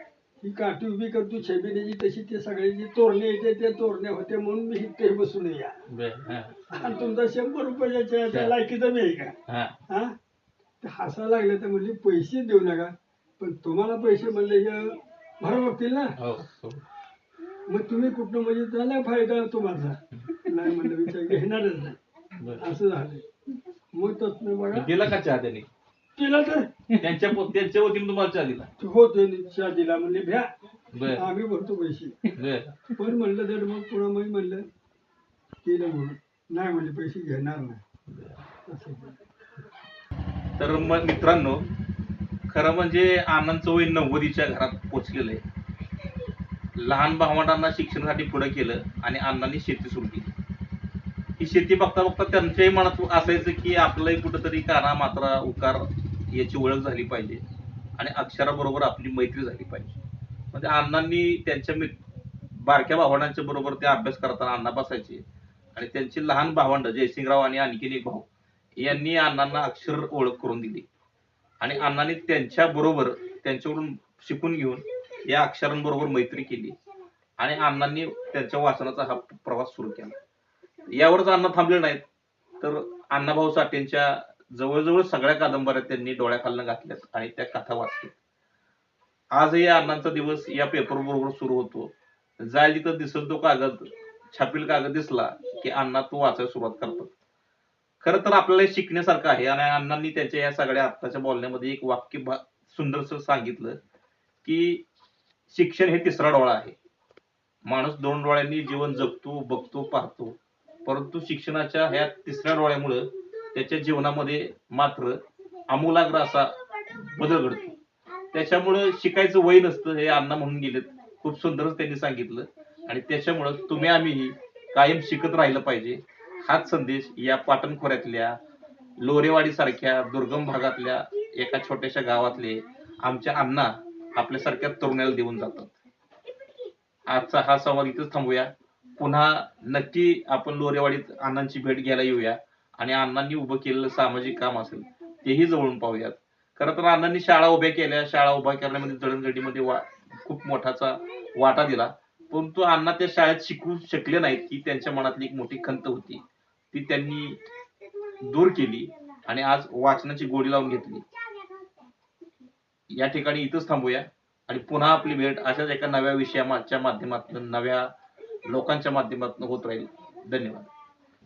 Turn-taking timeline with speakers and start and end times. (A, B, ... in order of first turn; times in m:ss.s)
0:00.4-0:05.8 A
0:05.9-0:06.9 B
0:06.7-0:09.4 A
0:09.5-0:09.8 B
0:09.9-0:10.1 A
0:10.8-0:16.2 A
0:16.2-0:16.8 B
0:17.7-0:22.0 A
0:22.4-0:22.7 B
0:22.6-0:23.2 A
0:23.9-0:25.0 A
0:24.7-0:25.7 B
0:26.2-0:26.8 A
0:27.0-0:28.7 B
0:28.8-0:30.5 A
0:30.9-0:31.3 B
0:31.1-0:32.3 A
0:32.3-0:32.9 B
0:33.0-0:34.6 A
0:35.6-0:37.8 A
0:38.1-0:38.4 B
0:38.7-0:39.2 A
0:40.6-0:41.7 B
0:42.5-0:45.4 B
0:46.8-0:50.3 B
0:51.4-0:57.4 B
0:58.0-0:59.9 B
1:00.5-1:02.0 B
1:02.5-1:05.2 B
1:05.8-1:10.9 B
1:11.6-1:16.8 B
1:17.4-1:20.2 B
1:20.9-1:22.0 B
1:22.6-1:28.2 B
1:29.3-1:37.1 B
1:38.0-1:43.8 B
1:44.4-1:44.8 B
1:45.5-1:46.8 B
1:47.7-1:57.8 B
1:58.3-2:08.4 B
2:09.0-2:15.7 B
2:17.1-2:37.4 B
2:38.2-2:41.1 B
2:42.9-2:47.9 B
2:48.5-2:50.7 B